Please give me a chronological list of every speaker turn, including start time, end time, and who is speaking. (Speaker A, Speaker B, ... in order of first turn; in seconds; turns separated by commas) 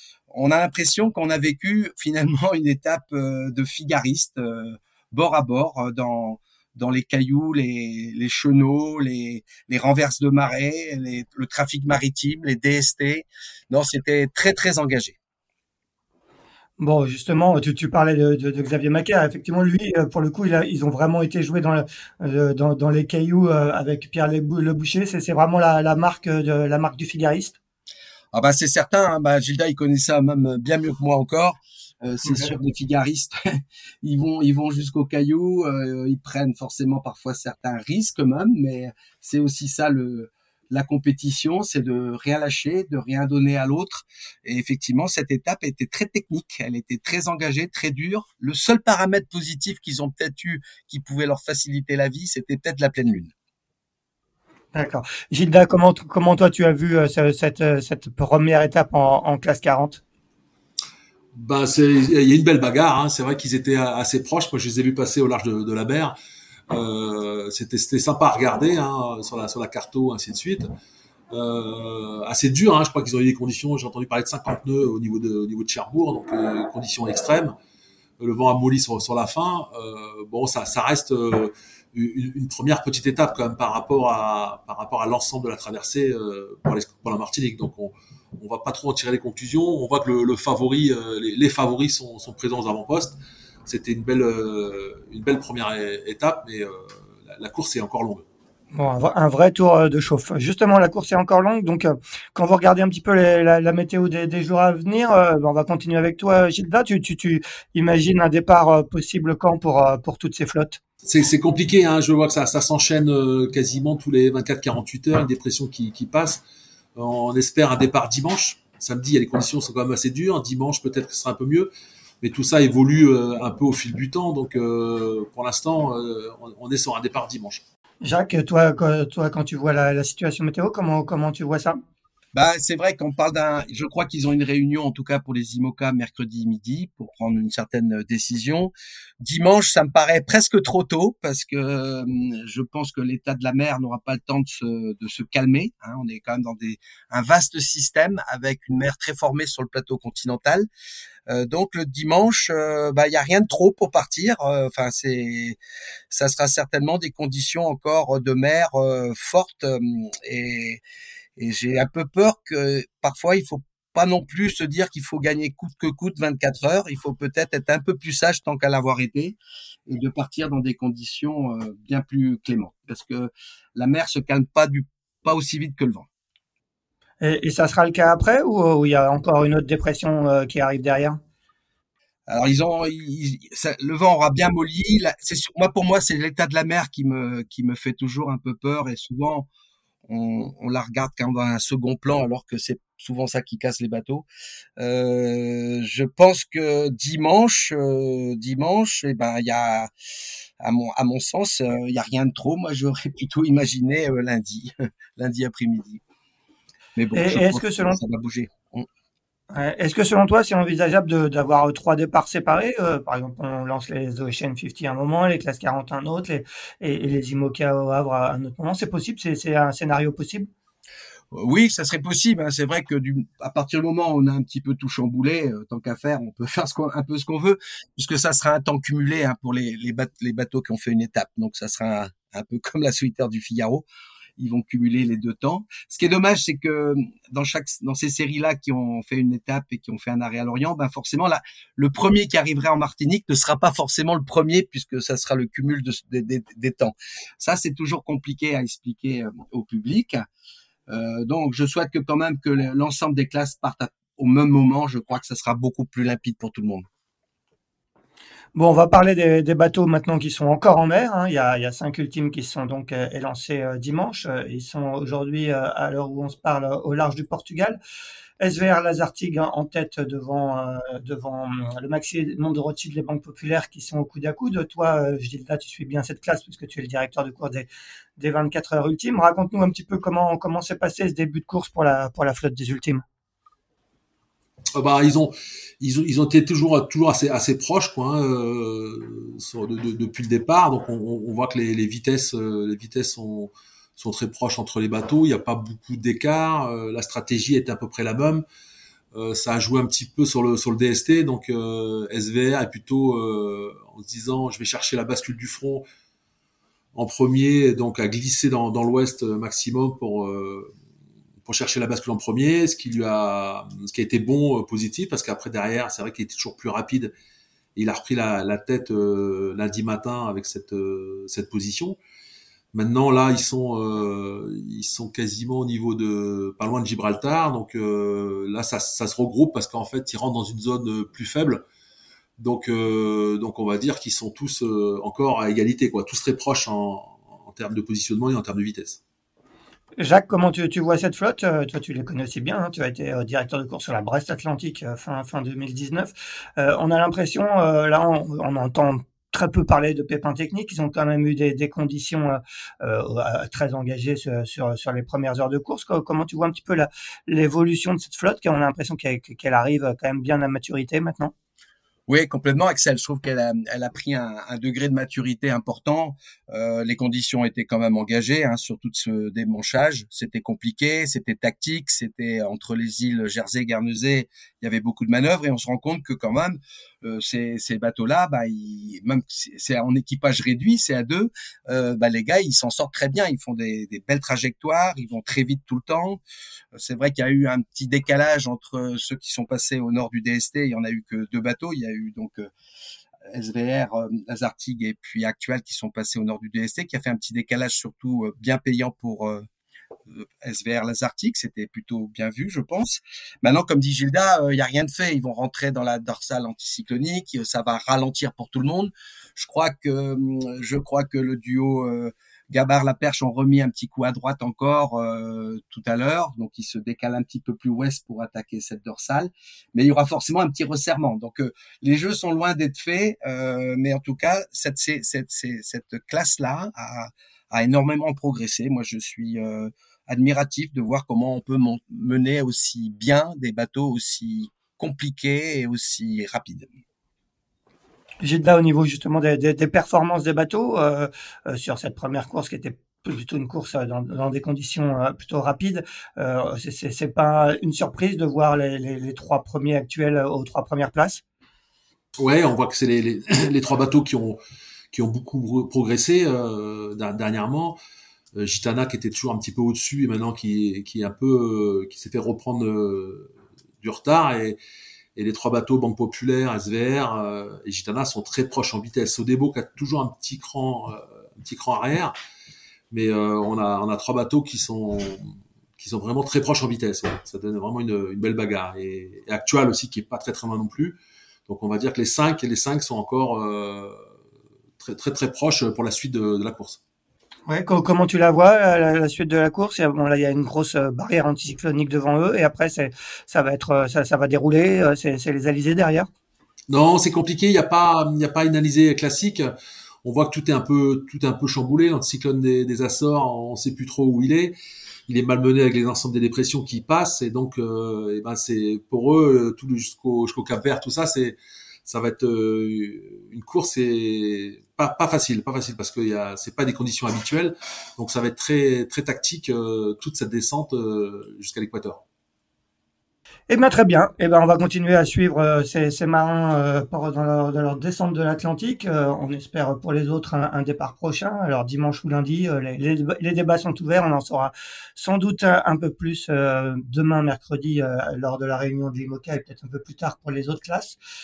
Speaker A: 0.3-15.2, Speaker B: 16.8-27.6, Speaker A: 28.3-53.3, Speaker B: 54.7-60.0, Speaker C: 61.3-66.1, Speaker C: 66.7-70.7, Speaker C: 71.3-77.5, Speaker C: 78.2-98.2, Speaker B: 98.7-110.8, Speaker C: 111.0-116.4, Speaker C: 117.0-121.7, Speaker C: 122.2-127.6, Speaker B: 128.0-131.8, Speaker A: 132.3-150.7, Speaker A: 151.3-155.6, Speaker A: 156.1-160.8, Speaker A: 161.4-176.1, Speaker B: 177.2-181.2, Speaker A: 182.3-189.5, Speaker A: 190.1-194.2, Speaker A: 194.8-199.9, Speaker A: 200.6-206.0, Speaker A: 206.9-208.9, Speaker B: 207.1-208.0, Speaker B: 209.5-220.5, Speaker A: 221.3-233.8, Speaker A: 234.4-250.2, Speaker A: 250.9-256.8, Speaker B: 258.5-267.8, Speaker B: 268.4-283.0, Speaker C: 284.7-298.4, Speaker C: 299.1-305.8, Speaker C: 306.9-310.7, Speaker C: 311.4-317.1, Speaker C: 317.8-322.0, Speaker C: 322.7-331.6, Speaker C: 332.4-339.0, Speaker B: 340.0-361.3, Speaker A: 362.1-386.2, Speaker A: 386.7-392.5, Speaker A: 393.3-399.4, Speaker A: 400.1-436.7, Speaker B: 438.2-451.2, Speaker C: 452.2-454.4, Speaker C: 454.9-457.8, Speaker C: 458.4-463.3, Speaker C: 463.8-464.6, Speaker C: 465.1-472.1, Speaker C: 472.9-484.0, Speaker C: 484.8-486.8, Speaker B: 487.5-496.1, Speaker C: 496.7-499.5, Speaker C: 500.0-504.6, Speaker C: 505.1-522.0, Speaker B: 523.5-541.0